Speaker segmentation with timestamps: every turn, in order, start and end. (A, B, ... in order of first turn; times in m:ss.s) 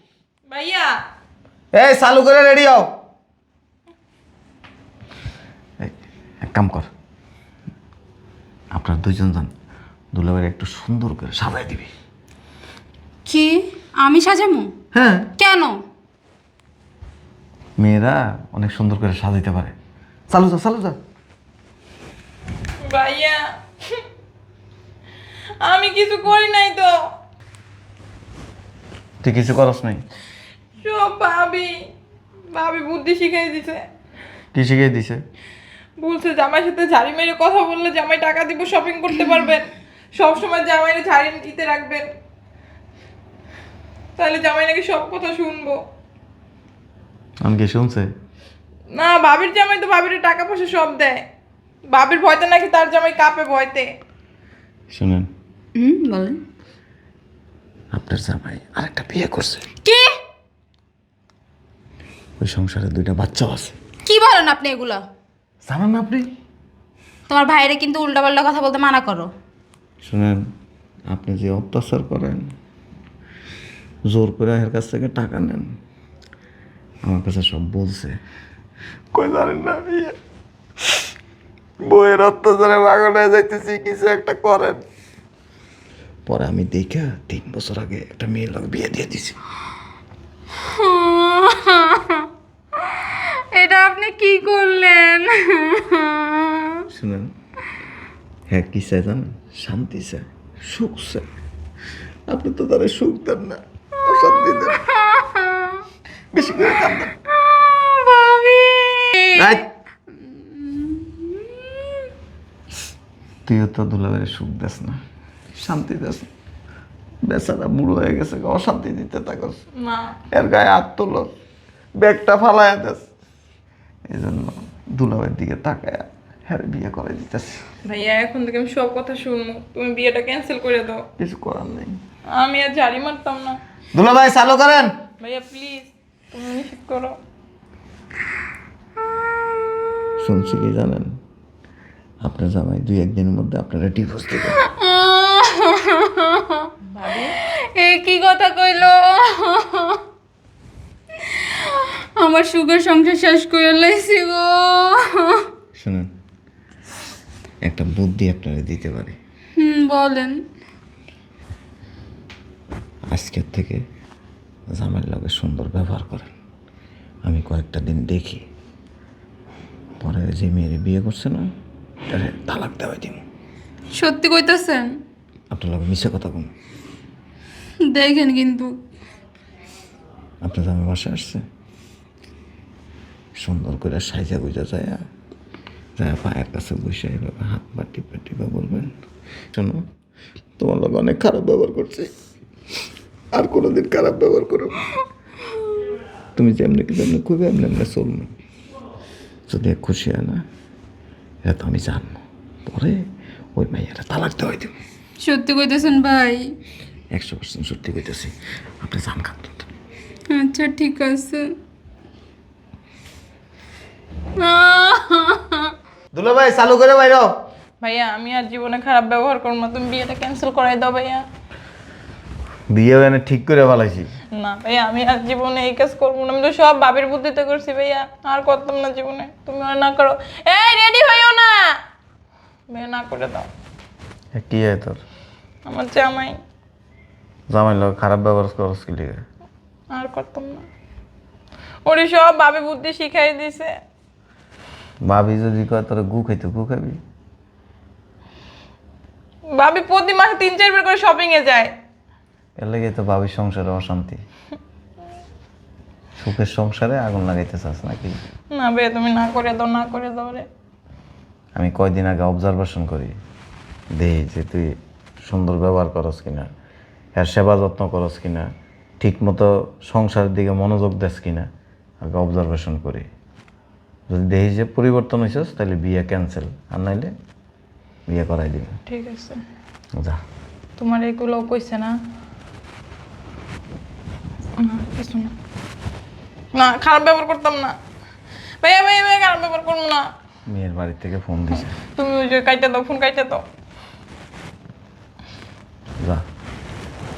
0:00.5-0:00.9 A
0:01.7-0:02.9 B
0:05.8-0:06.9 B
0:08.7-0:09.5 B
0:10.1-0:11.9 B
0:13.2-0:14.7 C
0:14.9-0:15.3 B
0:15.4-0:15.8 C
0:17.8-0:19.7 B
0:20.3-0:21.0 B
0:22.8-0:24.0 A
0:25.6-0:26.9 A
0:29.2-0:30.0 B
0:30.8-0:31.8 A
0:32.5-0:33.8 A
0:34.5-0:35.2 B
0:36.0-0:42.0 A
0:44.2-0:45.8 A
0:47.4-0:48.1 B
0:48.9-0:51.2 A
0:51.9-0:53.9 A
0:54.9-0:55.3 B
0:55.8-0:56.4 C
0:57.9-0:59.7 B
0:59.8-1:00.1 C
1:02.4-1:03.8 B
1:04.0-1:05.0 C
1:05.6-1:06.3 B
1:07.3-1:09.3 C
1:10.0-1:10.4 B
1:11.1-1:12.5 B
1:14.1-1:15.7 B
1:17.0-1:18.2 B
1:19.1-1:20.2 B
1:21.8-1:24.8 B
1:26.2-1:29.4 B
1:30.6-1:32.3 C
1:32.8-1:36.8 C
1:36.9-1:37.3 B
1:38.5-1:41.2 B
1:42.3-1:44.8 B
1:44.9-1:45.8 C
1:46.3-1:47.2 B
1:47.4-1:49.4 C
1:49.3-1:49.7 B
1:50.3-1:51.8 C
1:53.4-1:55.0 B
1:55.5-1:56.3 B
1:57.2-1:59.6 B
1:59.8-2:00.1 A
2:00.3-2:01.3 B
2:02.0-2:03.0 B
2:04.1-2:07.6 B
2:07.8-2:11.0 A
2:11.2-2:12.0 B
2:12.3-2:13.6 A
2:13.9-2:14.9 B
2:15.2-2:17.2 A
2:20.2-2:21.2 B
2:22.2-2:24.6 B
2:24.6-2:26.7 C
2:26.8-2:27.4 A
2:27.4-2:30.0 C
2:31.3-2:35.4 C
2:35.8-2:36.1 B
2:37.6-2:39.2 B
2:39.6-2:40.4 C
2:43.1-2:43.8 B
2:44.7-2:46.3 B
2:47.2-2:48.4 B
2:50.0-2:51.5 B
2:52.1-2:53.2 B
2:53.9-2:55.0 C
2:55.5-2:56.5 B
2:57.8-2:58.7 C
3:00.4-3:01.4 B
3:03.4-3:05.0 B
3:06.0-3:08.9 B
3:09.5-3:09.8 B
3:10.6-3:12.1 B
3:13.3-3:14.9 B
3:16.4-3:18.3 B
3:19.5-3:20.4 B
3:21.4-3:23.0 B
3:23.6-3:24.7 B
3:25.2-3:26.5 C
3:27.1-3:29.7 B
3:30.3-3:31.5 C
3:34.4-3:35.6 C
3:36.1-3:37.3 B
3:37.8-3:41.2 A
3:42.7-3:44.1 B
3:44.3-3:51.8 A
3:52.7-3:53.5 A
3:54.4-3:55.0 B
3:55.6-3:56.4 A
3:57.5-3:59.2 B
3:59.9-4:00.6 A
4:01.8-4:03.7 A
4:05.0-4:07.0 B
4:09.5-4:11.7 A
4:12.6-4:14.2 B
4:16.2-4:18.2 B
4:18.5-4:20.4 A
4:21.6-4:23.1 B
4:23.9-4:24.7 B
4:25.2-4:26.5 B
4:27.2-4:28.5 B
4:29.0-4:31.5 B
4:32.0-4:33.1 B
4:34.1-4:37.1 B
4:38.1-4:38.8 B
4:38.9-4:39.4 A
4:40.8-4:41.9 A
4:44.6-4:45.3 A
4:46.5-4:47.7 A
4:48.6-4:50.0 A
4:50.5-4:51.7 B
4:52.0-4:53.4 A